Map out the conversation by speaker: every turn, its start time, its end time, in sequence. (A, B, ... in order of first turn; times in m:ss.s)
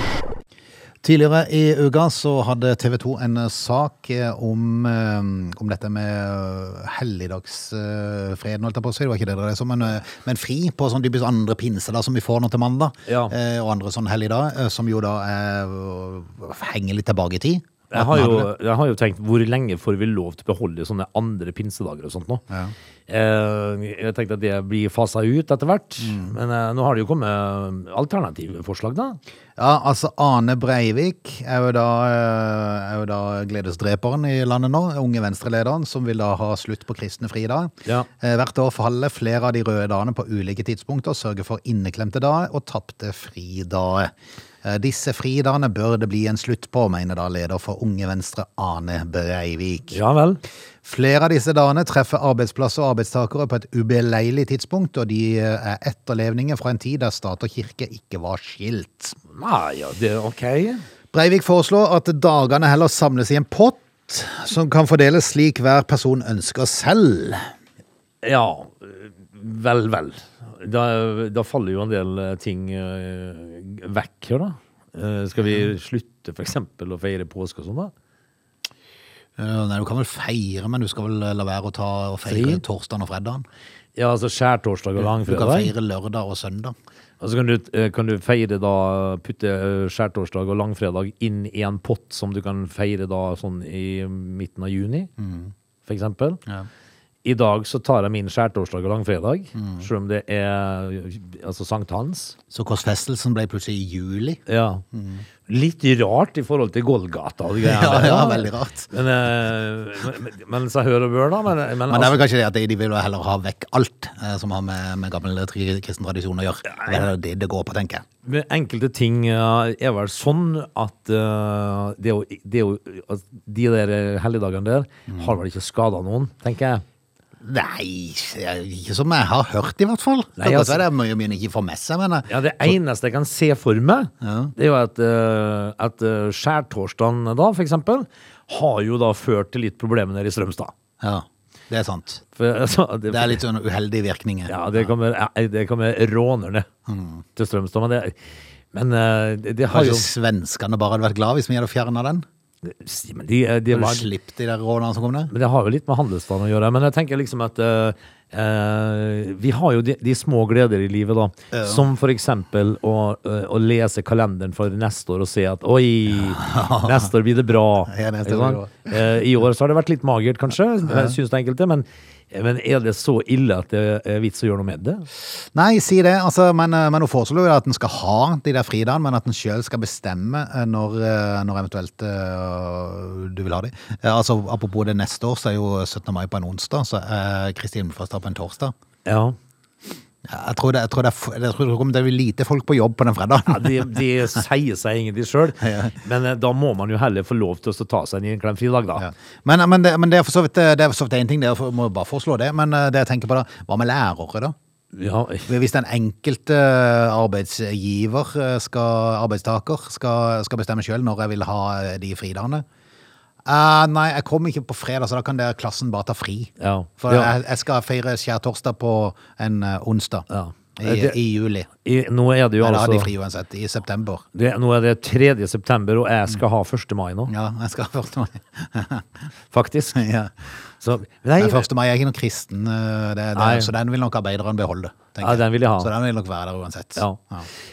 0:01.0-0:18.5 A
0:13.1-0:13.3 B
0:17.9-0:22.4 B
0:23.1-0:29.2 B
0:26.0-0:26.3 A
0:29.6-0:44.1 A
0:44.6-0:50.0 A
0:49.9-0:50.4 B
0:50.8-0:59.2 A
0:59.3-1:00.8 B
1:01.1-1:07.5 A
1:08.2-1:17.9 B
1:19.4-1:23.4 A
1:22.3-1:22.6 B
1:24.0-1:25.7 B
1:25.0-1:26.8 A
1:27.2-1:35.1 B
1:35.2-1:35.5 A
1:35.9-1:36.4 B
1:37.2-1:42.4 B
1:39.6-1:39.8 A
1:42.5-1:44.4 A
1:44.5-1:44.8 B
1:44.9-1:45.2 A
1:45.5-1:52.2 B
1:47.6-1:48.9 A
1:51.9-1:58.0 A
1:56.8-1:57.1 B
1:58.2-2:06.8 B
2:05.1-2:05.4 A
2:07.4-2:12.7 A
2:10.4-2:10.8 B
2:12.3-2:20.7 B
2:14.2-2:14.5 A
2:21.0-2:22.2 A
2:22.4-2:23.4 B
2:23.1-2:24.9 A
2:24.5-2:26.7 B
2:26.9-2:27.2 A
2:27.4-2:28.2 B
2:28.7-2:30.0 B
2:29.7-2:32.2 A
2:32.6-2:34.1 B
2:33.7-2:35.3 A
2:35.3-2:55.1 B
2:41.5-2:41.9 A
2:46.2-2:47.1 A
2:47.9-2:48.9 A
2:50.9-2:51.1 A
2:55.5-3:08.7 A
3:09.0-3:09.4 B
3:10.2-3:14.4 A
3:13.5-3:19.1 B
3:15.6-3:16.0 A
3:19.0-3:24.6 A
3:24.9-3:25.5 B
3:25.5-3:32.6 A
3:33.5-3:41.7 A
3:36.6-3:37.3 B
3:40.3-3:41.2 B
3:41.8-3:43.1 B
3:42.6-3:44.2 A
3:44.3-3:47.3 B
3:47.3-3:49.1 A
3:49.5-3:50.0 B
3:49.9-3:50.3 A
3:50.8-3:51.7 B
3:51.4-3:57.5 A
3:53.4-3:53.7 B
3:55.2-3:55.9 B
3:57.0-3:57.2 B